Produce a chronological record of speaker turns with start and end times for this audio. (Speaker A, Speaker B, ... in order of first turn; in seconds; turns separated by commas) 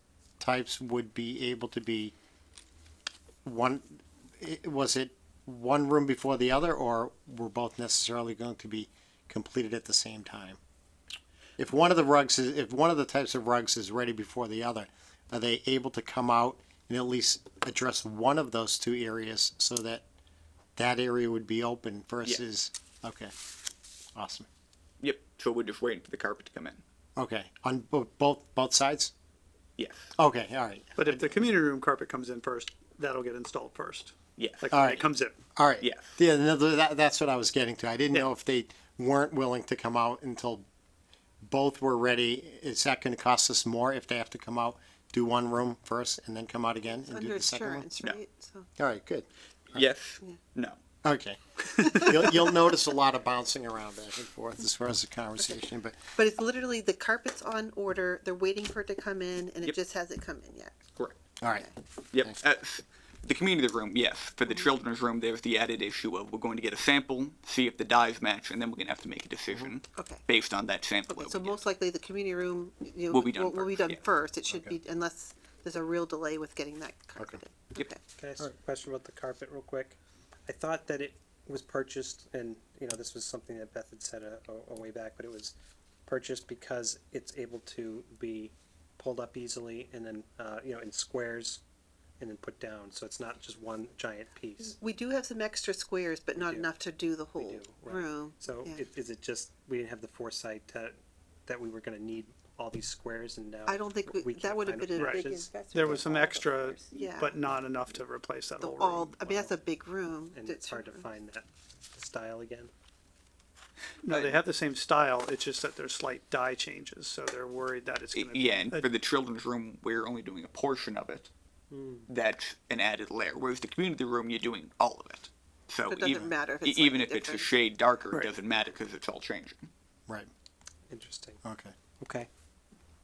Speaker A: 0.4-2.1, Speaker A: 3.5-10.6, Speaker A: 11.6-20.0, Speaker A: 20.8-23.3, Speaker A: 24.1-24.5, Speaker B: 25.0-26.8, Speaker A: 27.2-29.1, Speaker B: 29.8-30.1, Speaker A: 30.2-31.4, Speaker C: 31.0-35.4, Speaker B: 34.4-34.7, Speaker A: 34.7-35.0, Speaker A: 35.5-40.7, Speaker B: 35.8-36.1, Speaker A: 41.5-47.9, Speaker D: 47.0-48.7, Speaker A: 48.8-49.8, Speaker B: 49.7-50.8, Speaker A: 51.0-56.0, Speaker D: 51.7-52.5, Speaker D: 56.2-60.8, Speaker A: 61.4-61.7, Speaker D: 61.5-61.8, Speaker B: 62.1-71.6, Speaker D: 70.0-70.2, Speaker D: 71.1-78.1, Speaker B: 73.1-74.1, Speaker E: 78.1-85.5, Speaker E: 86.1-91.6, Speaker E: 92.2-94.8, Speaker D: 94.6-98.8, Speaker E: 96.3-96.7, Speaker E: 97.4-106.2, Speaker D: 103.7-107.4, Speaker C: 105.0-109.4, Speaker D: 108.6-111.1, Speaker E: 110.3-112.7, Speaker C: 114.0-118.9, Speaker B: 114.1-114.4, Speaker B: 118.1-121.3, Speaker E: 121.7-122.1, Speaker B: 122.1-129.7, Speaker D: 125.9-127.5, Speaker E: 130.9-131.4, Speaker A: 131.4-131.7, Speaker E: 132.0-132.3